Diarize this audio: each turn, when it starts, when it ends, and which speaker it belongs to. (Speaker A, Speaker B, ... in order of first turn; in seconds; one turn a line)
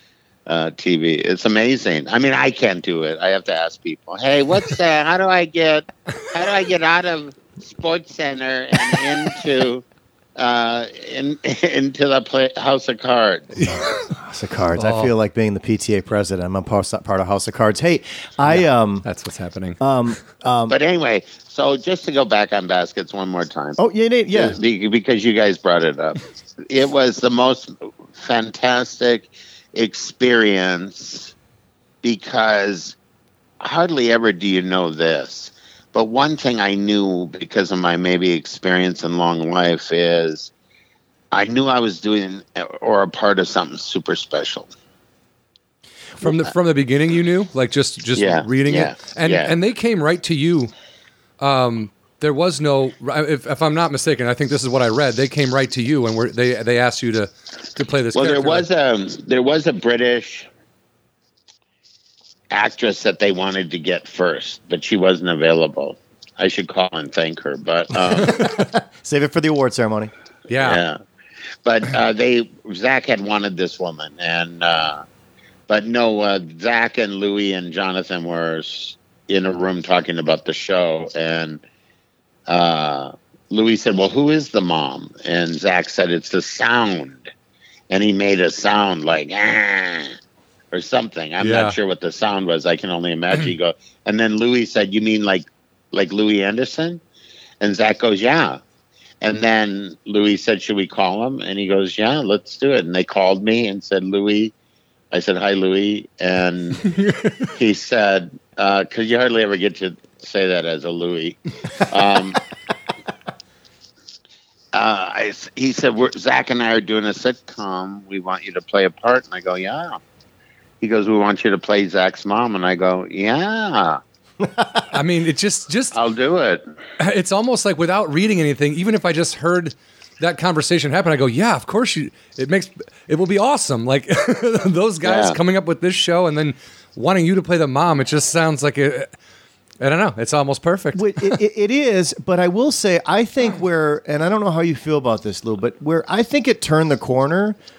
Speaker A: 0.5-9.8
Speaker A: 10.4-13.7
Speaker B: 13.6-14.1
Speaker C: 13.7-19.1
Speaker B: 14.8-15.1
Speaker B: 18.5-19.8
Speaker C: 19.8-20.8
Speaker A: 20.7-23.8
Speaker C: 23.8-24.6
Speaker A: 24.3-31.3
Speaker A: 32.0-33.0
Speaker A: 33.6-40.5
Speaker A: 41.3-44.7
Speaker B: 46.2-50.7
Speaker A: 48.2-49.5
Speaker B: 51.4-58.7
Speaker A: 58.1-60.5
Speaker A: 62.5-68.4
Speaker B: 68.2-68.7
Speaker C: 68.2-70.1
Speaker B: 70.5-70.8
Speaker A: 70.6-71.0
Speaker A: 71.7-75.0
Speaker A: 75.7-81.6
Speaker A: 82.5-87.3
Speaker A: 87.9-90.2
Speaker A: 90.7-97.0
Speaker B: 91.4-91.8
Speaker A: 97.6-98.6
Speaker A: 99.2-104.5
Speaker A: 105.1-112.4
Speaker B: 107.0-107.5
Speaker A: 114.7-120.0
Speaker A: 120.8-124.0
Speaker C: 124.4-124.8
Speaker B: 124.9-126.0
Speaker A: 125.9-126.6
Speaker B: 127.0-139.1
Speaker A: 135.0-135.4
Speaker B: 139.8-141.4
Speaker C: 140.9-147.6